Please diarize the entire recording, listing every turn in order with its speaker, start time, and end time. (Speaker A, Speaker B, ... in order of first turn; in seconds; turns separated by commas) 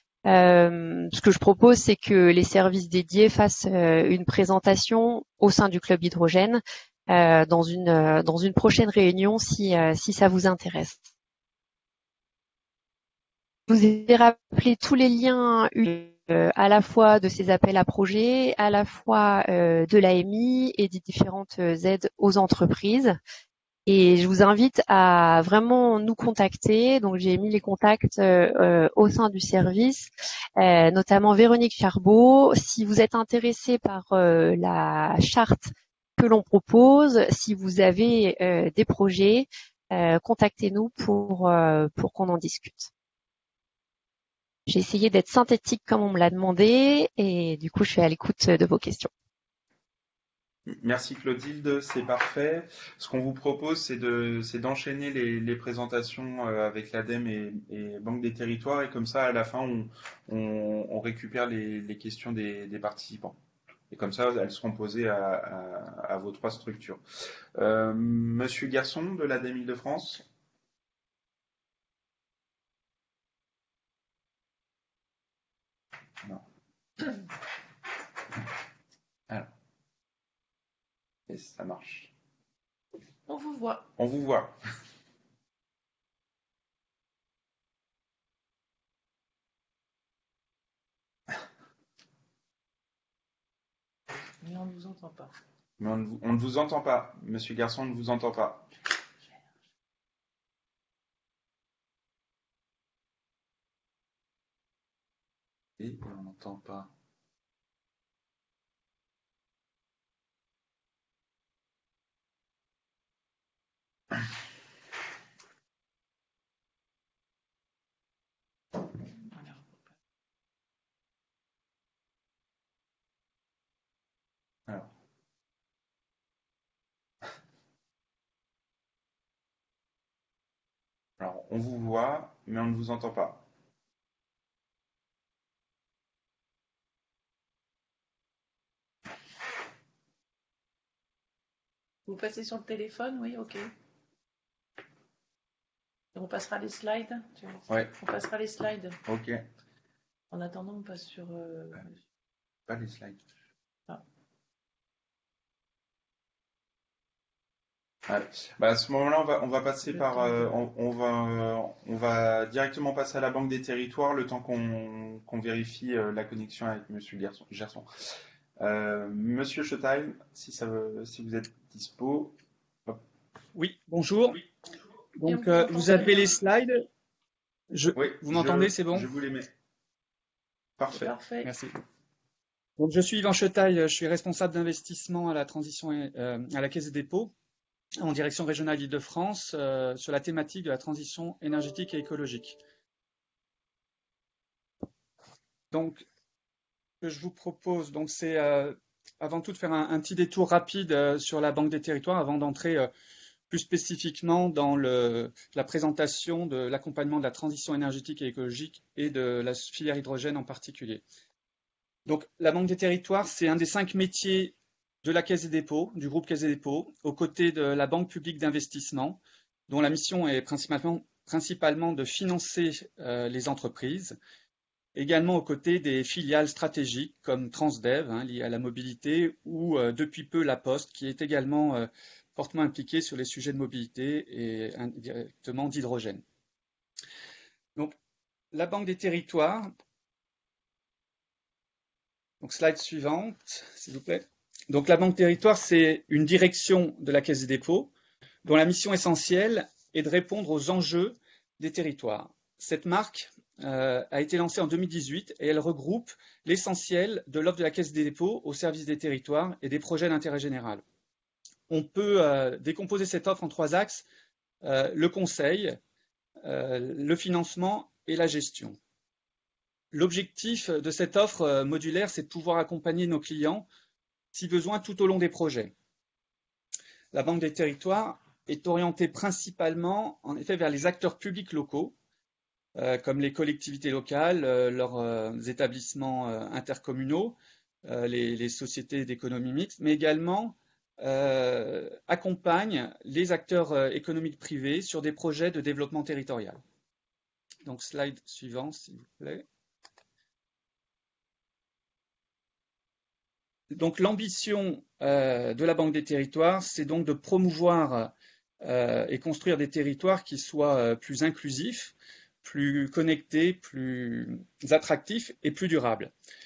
Speaker A: 0.2-11.0, Speaker A: 13.7-23.2, Speaker A: 23.9-42.9, Speaker A: 44.7-49.1, Speaker B: 50.7-63.4, Speaker B: 63.9-67.0, Speaker B: 67.5-70.2, Speaker B: 81.3-82.1, Speaker C: 83.3-83.8, Speaker B: 84.0-84.5, Speaker C: 94.4-95.3, Speaker B: 95.8-98.7, Speaker B: 105.8-106.9, Speaker C: 119.3-119.7, Speaker B: 131.2-133.4, Speaker C: 142.1-143.7, Speaker C: 146.1-149.0, Speaker B: 147.7-147.9, Speaker B: 149.1-149.4, Speaker C: 150.3-151.9, Speaker B: 152.7-153.2, Speaker B: 158.1-167.9, Speaker C: 159.9-160.5, Speaker B: 168.6-172.3, Speaker D: 173.5-174.4, Speaker D: 175.2-176.8, Speaker C: 175.2-176.4, Speaker D: 177.7-179.1, Speaker B: 177.9-179.5, Speaker B: 180.8-181.1, Speaker C: 180.9-181.5, Speaker D: 181.4-181.7, Speaker D: 182.8-187.3, Speaker D: 188.0-192.6, Speaker D: 195.7-196.1, Speaker D: 197.0-202.9, Speaker D: 203.5-211.0, Speaker D: 212.1-224.2, Speaker D: 224.9-236.2, Speaker D: 238.5-239.7, Speaker D: 242.4-247.9, Speaker D: 248.4-260.8, Speaker D: 261.7-264.1, Speaker D: 264.6-265.8, Speaker D: 266.4-268.8, Speaker D: 269.9-273.7, Speaker D: 274.3-275.7, Speaker D: 277.1-281.9, Speaker D: 282.8-296.6, Speaker D: 297.6-299.4, Speaker D: 303.7-316.1